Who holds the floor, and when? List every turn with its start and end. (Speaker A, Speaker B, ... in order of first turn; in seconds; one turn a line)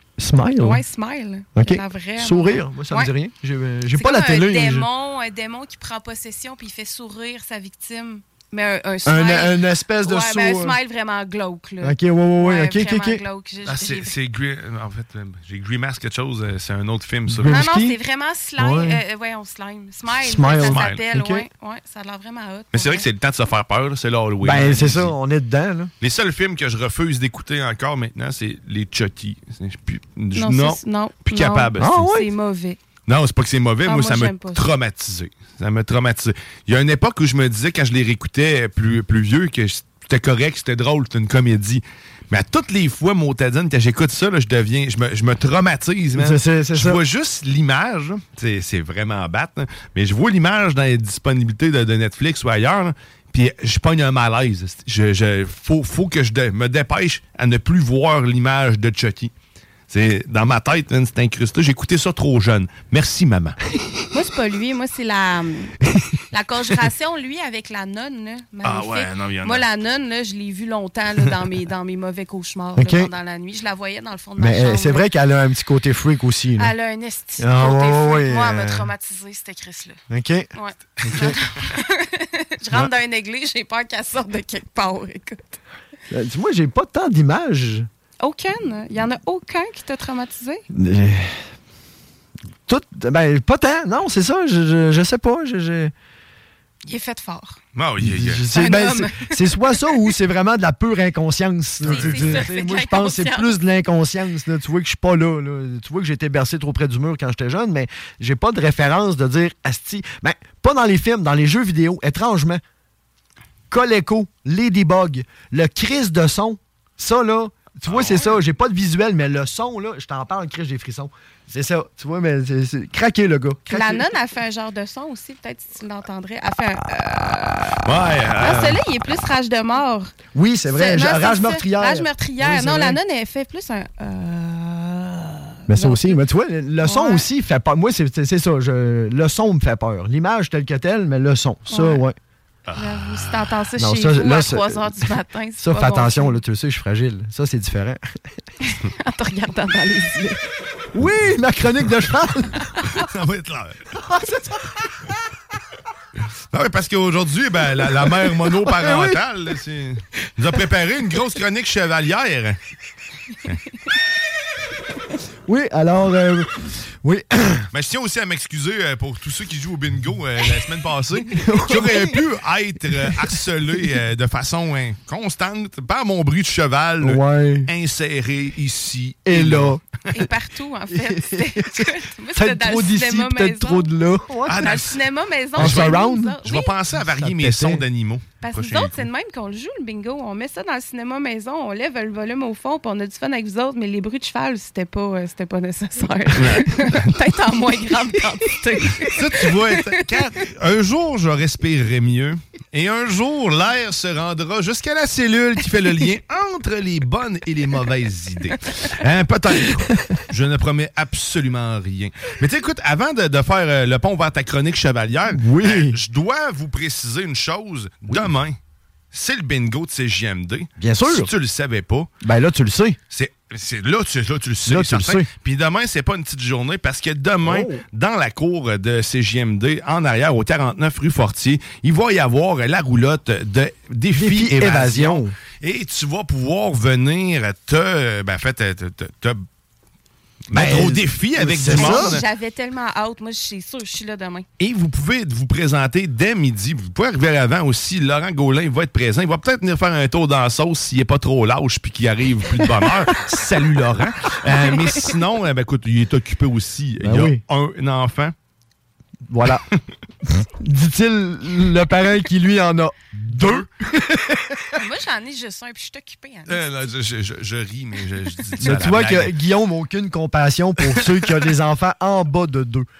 Speaker A: 0.2-0.8
Speaker B: 0.6-3.1
Speaker A: 1.5-4.9
Speaker B: 3.9-14.1
Speaker A: 9.0-10.8
Speaker A: 11.8-13.2
Speaker C: 13.6-17.6
Speaker A: 17.3-18.0
Speaker B: 17.4-23.1
Speaker A: 18.6-19.0
Speaker A: 20.2-21.4
Speaker C: 20.5-21.0
Speaker C: 22.7-25.1
Speaker A: 24.4-25.9
Speaker C: 26.0-32.0
Speaker B: 30.3-32.8
Speaker A: 31.8-32.3
Speaker C: 33.1-59.3
Speaker B: 33.8-34.6
Speaker A: 46.1-47.0
Speaker C: 59.9-63.6
Speaker B: 64.1-65.7
Speaker B: 66.3-75.1
Speaker C: 68.6-69.7
Speaker A: 72.8-73.1
Speaker A: 74.4-76.7
Speaker B: 76.6-80.0
Speaker A: 77.4-78.9
Speaker A: 80.1-80.5
Speaker B: 80.5-85.6
Speaker A: 81.0-81.4
Speaker A: 86.1-87.9
Speaker B: 88.2-90.6
Speaker A: 90.7-91.4
Speaker A: 92.7-95.9
Speaker B: 96.8-97.6
Speaker C: 97.8-98.5
Speaker A: 98.0-112.6
Speaker B: 98.5-100.0
Speaker C: 101.8-102.5
Speaker B: 101.9-103.5
Speaker A: 113.7-124.1
Speaker C: 117.9-118.4
Speaker B: 123.7-127.9
Speaker C: 127.8-128.8
Speaker B: 128.4-130.1
Speaker A: 130.3-133.0
Speaker B: 130.7-136.2
Speaker A: 135.7-142.2
Speaker B: 136.8-137.2
Speaker B: 141.7-142.0
Speaker C: 142.7-143.6
Speaker B: 142.8-146.4
Speaker A: 143.8-148.0
Speaker B: 148.6-150.4
Speaker A: 150.9-152.6
Speaker C: 152.8-153.9
Speaker A: 154.0-154.7
Speaker C: 156.5-162.6
Speaker A: 158.5-159.2
Speaker A: 165.5-167.7
Speaker C: 167.7-179.8
Speaker A: 171.3-172.2
Speaker A: 177.0-177.7
Speaker A: 179.2-179.8
Speaker B: 180.1-183.9
Speaker A: 180.9-184.8
Speaker C: 184.4-185.0
Speaker B: 184.6-186.7
Speaker A: 185.6-186.4
Speaker C: 185.6-189.1
Speaker A: 186.9-187.8
Speaker B: 188.4-200.2
Speaker C: 196.3-197.2
Speaker C: 199.0-218.6
Speaker A: 215.3-216.0
Speaker C: 219.1-222.1
Speaker A: 220.8-221.3
Speaker A: 222.2-223.0
Speaker C: 223.1-239.4
Speaker A: 224.7-225.3
Speaker A: 227.4-227.8
Speaker A: 234.1-235.3
Speaker C: 240.5-242.2
Speaker A: 240.5-242.2
Speaker B: 241.7-244.4
Speaker C: 244.6-258.3
Speaker A: 257.0-257.4
Speaker A: 259.3-259.6
Speaker A: 260.4-264.6
Speaker C: 263.3-263.7
Speaker B: 264.7-266.6
Speaker C: 266.5-269.3
Speaker A: 268.6-272.9
Speaker C: 271.1-271.4